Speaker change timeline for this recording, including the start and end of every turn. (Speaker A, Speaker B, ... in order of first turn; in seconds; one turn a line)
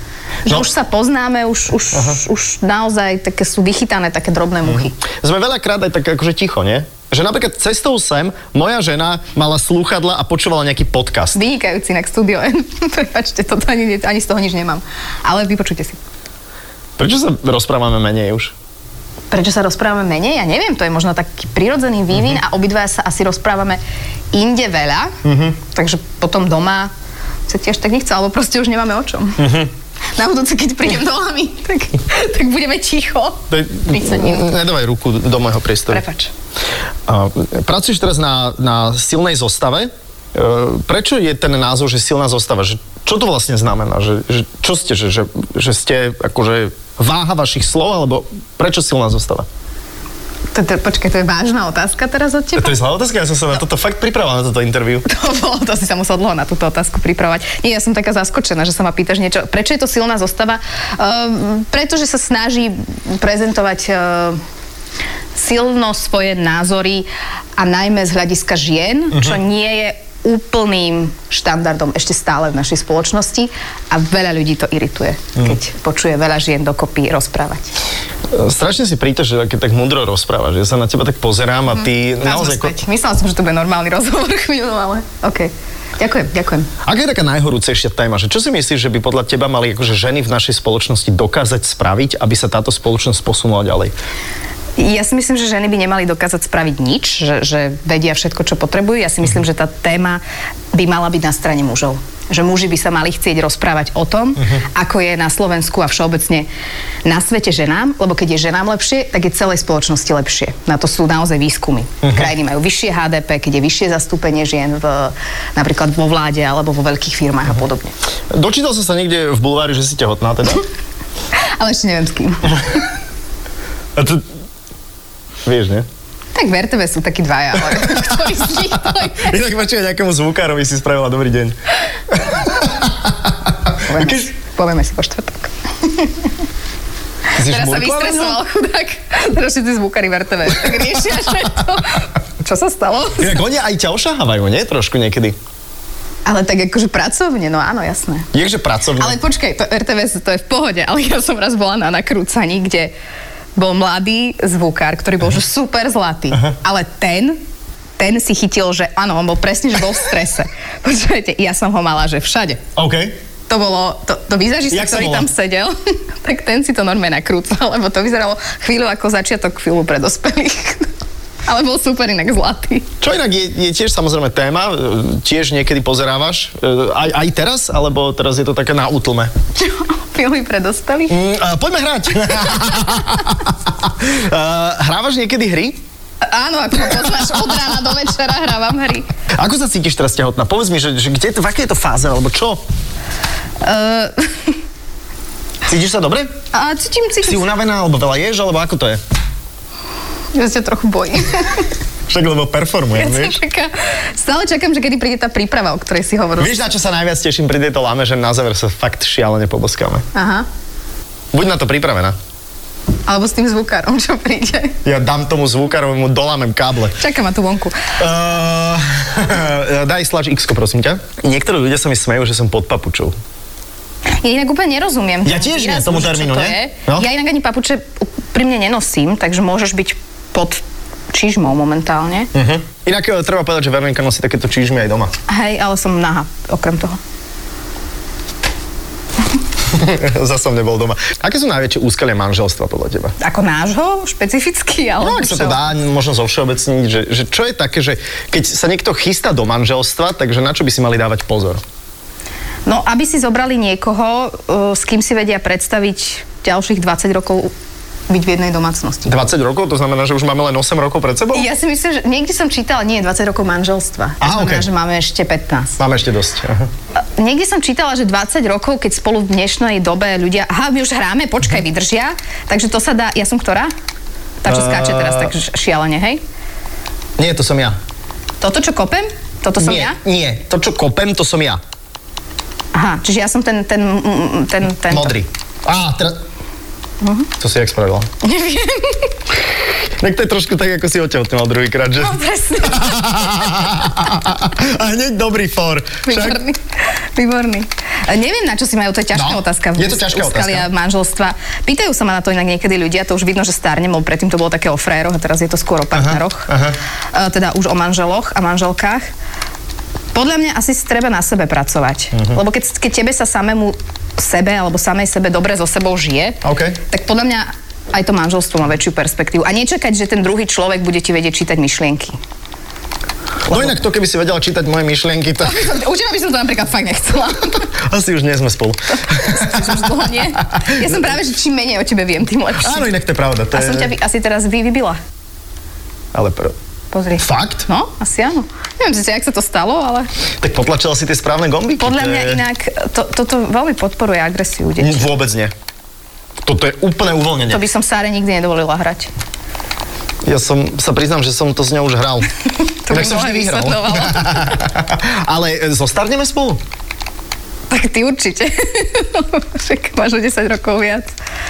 Speaker A: 0.5-5.0
Speaker B: 1.9-2.2
Speaker B: 5.0-11.4
Speaker A: 11.3-16.0
Speaker B: 17.0-18.5
Speaker A: 19.3-23.8
Speaker A: 24.3-26.9
Speaker B: 25.2-25.6
Speaker A: 27.5-29.6
Speaker B: 29.4-29.7
Speaker A: 30.2-34.5
Speaker B: 33.5-36.0
Speaker A: 35.9-36.3
Speaker B: 37.1-49.5
Speaker A: 50.5-52.8
Speaker B: 52.6-55.1
Speaker A: 55.0-64.4
Speaker A: 65.3-77.7
Speaker B: 69.1-69.4
Speaker B: 78.3-82.8
Speaker A: 81.7-86.7
Speaker B: 86.8-93.9
Speaker A: 94.8-100.2
Speaker A: 100.7-106.5
Speaker A: 107.0-117.9
Speaker B: 112.0-112.3
Speaker B: 118.3-120.7
Speaker A: 121.4-122.8
Speaker B: 124.0-124.2
Speaker B: 125.5-125.9
Speaker A: 126.3-129.3
Speaker B: 127.8-131.6
Speaker B: 132.1-133.3
Speaker A: 133.8-136.3
Speaker B: 133.9-134.3
Speaker B: 137.4-138.4
Speaker A: 137.4-143.4
Speaker B: 143.2-145.4
Speaker A: 146.3-148.3
Speaker B: 148.3-149.2
Speaker A: 149.0-152.9
Speaker A: 153.6-157.4
Speaker A: 158.0-162.6
Speaker B: 162.8-163.2
Speaker A: 163.5-170.9
Speaker B: 164.7-165.3
Speaker A: 171.5-172.9
Speaker B: 173.0-179.3
Speaker A: 179.6-181.2
Speaker B: 181.1-185.8
Speaker A: 186.2-189.1
Speaker B: 189.3-192.6
Speaker A: 193.6-194.6
Speaker B: 195.7-196.3
Speaker A: 196.5-197.4
Speaker B: 197.2-199.0
Speaker A: 200.3-201.7
Speaker B: 202.1-203.4
Speaker A: 202.9-206.7
Speaker B: 206.4-210.1
Speaker A: 210.1-210.5
Speaker B: 211.3-212.2
Speaker A: 213.1-214.8
Speaker B: 214.8-217.0
Speaker A: 217.0-217.9
Speaker B: 218.0-223.2
Speaker A: 224.2-232.3
Speaker B: 225.2-227.1
Speaker B: 232.3-235.1
Speaker A: 235.3-237.0
Speaker B: 239.7-243.2
Speaker A: 243.2-245.7
Speaker B: 245.0-251.6
Speaker A: 252.7-257.5
Speaker A: 258.1-259.1
Speaker B: 259.1-261.5
Speaker A: 261.3-265.8
Speaker B: 264.2-264.7
Speaker B: 265.8-266.7
Speaker A: 267.0-273.7
Speaker A: 274.4-276.2
Speaker B: 274.5-275.3
Speaker B: 277.2-277.8
Speaker A: 278.4-280.0
Speaker B: 279.6-281.6
Speaker A: 282.7-285.2
Speaker B: 284.9-286.2
Speaker A: 287.0-287.3
Speaker B: 287.4-288.1
Speaker A: 288.2-289.1
Speaker B: 289.7-296.4
Speaker A: 292.0-293.5
Speaker A: 296.1-296.6
Speaker A: 297.1-306.5
Speaker B: 299.1-300.7
Speaker B: 305.9-306.8
Speaker A: 307.1-309.1
Speaker A: 310.1-322.2
Speaker B: 316.4-316.8
Speaker B: 323.5-325.7
Speaker A: 325.4-327.7
Speaker B: 327.8-331.1
Speaker A: 329.1-332.9
Speaker B: 332.6-333.9
Speaker A: 333.5-335.0
Speaker B: 336.1-336.6
Speaker A: 336.9-340.1
Speaker B: 337.2-337.7
Speaker B: 340.4-342.4
Speaker A: 341.8-345.1
Speaker B: 344.8-345.5
Speaker B: 346.4-347.6
Speaker A: 347.5-349.1
Speaker B: 350.2-352.3
Speaker A: 352.9-354.6
Speaker B: 352.9-356.6
Speaker A: 357.7-361.1